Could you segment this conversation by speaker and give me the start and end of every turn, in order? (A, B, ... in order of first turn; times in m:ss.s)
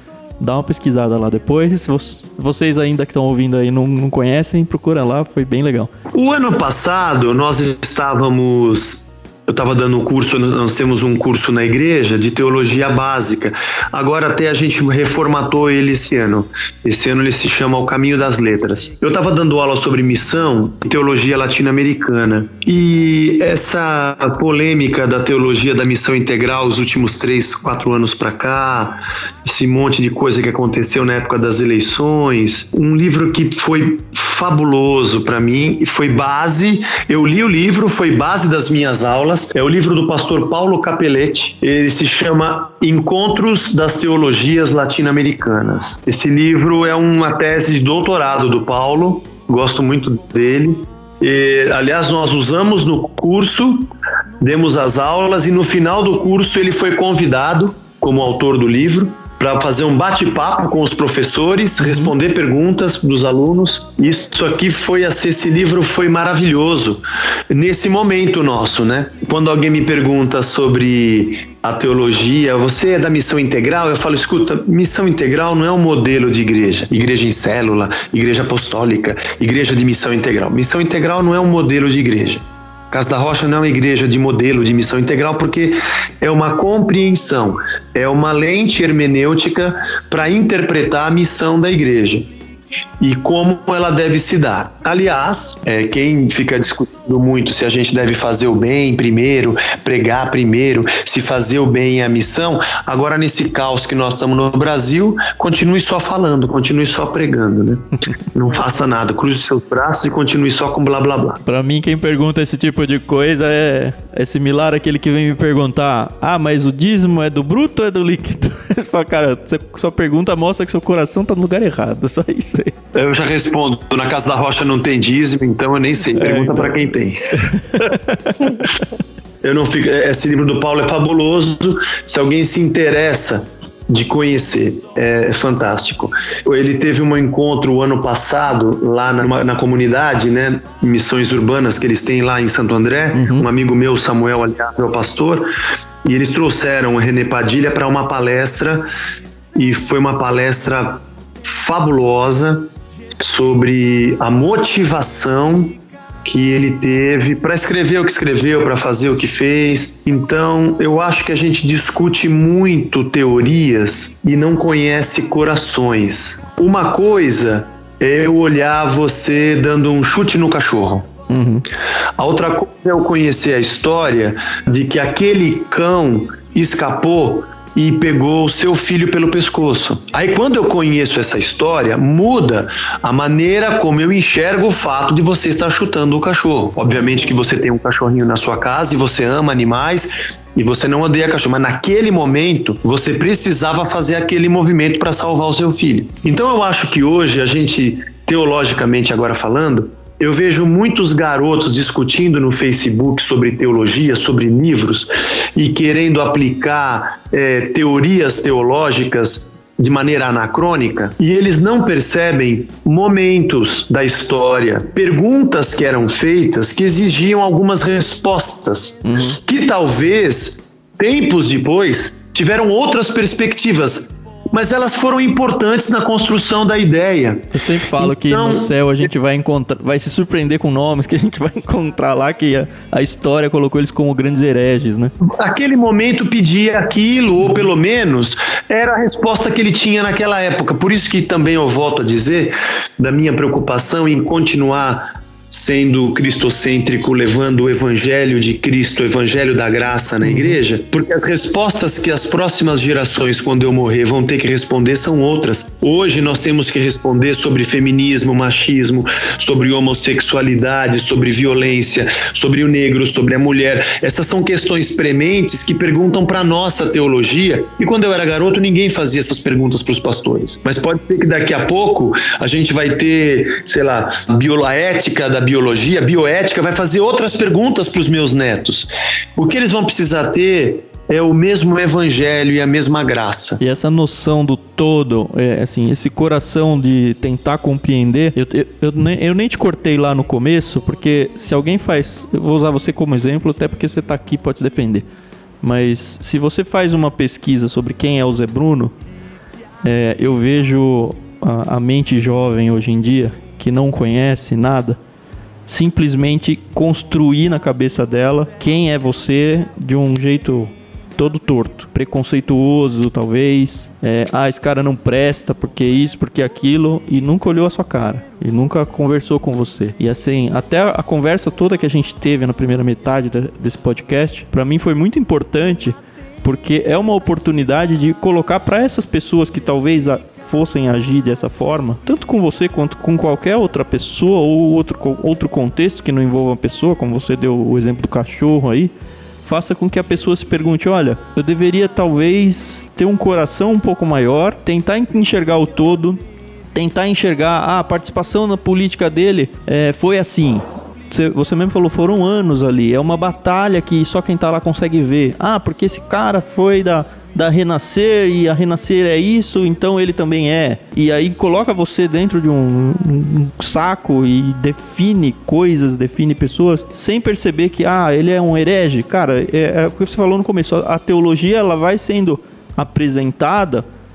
0:00.4-0:05.9 A
0:06.1-1:32.3 B
1:01.8-1:02.1 A
1:33.0-1:51.4 B
1:51.4-2:02.7 A
2:02.9-2:08.0 B
2:06.1-2:06.8 A
2:07.5-2:08.6 A
2:09.4-2:25.5 B
2:23.1-2:23.5 A
2:26.0-2:28.9 B
2:29.6-2:51.1 B
2:51.3-2:51.6 A
2:52.2-3:48.8 B
3:39.0-3:39.4 A
3:47.5-3:55.1 A
3:55.2-4:43.6 B
4:10.2-4:10.6 A
4:43.6-4:55.0 A
4:55.6-4:59.0 A
4:59.8-5:05.0 A
5:05.7-5:38.9 A
5:39.4-5:46.2 A
5:46.7-6:13.9 A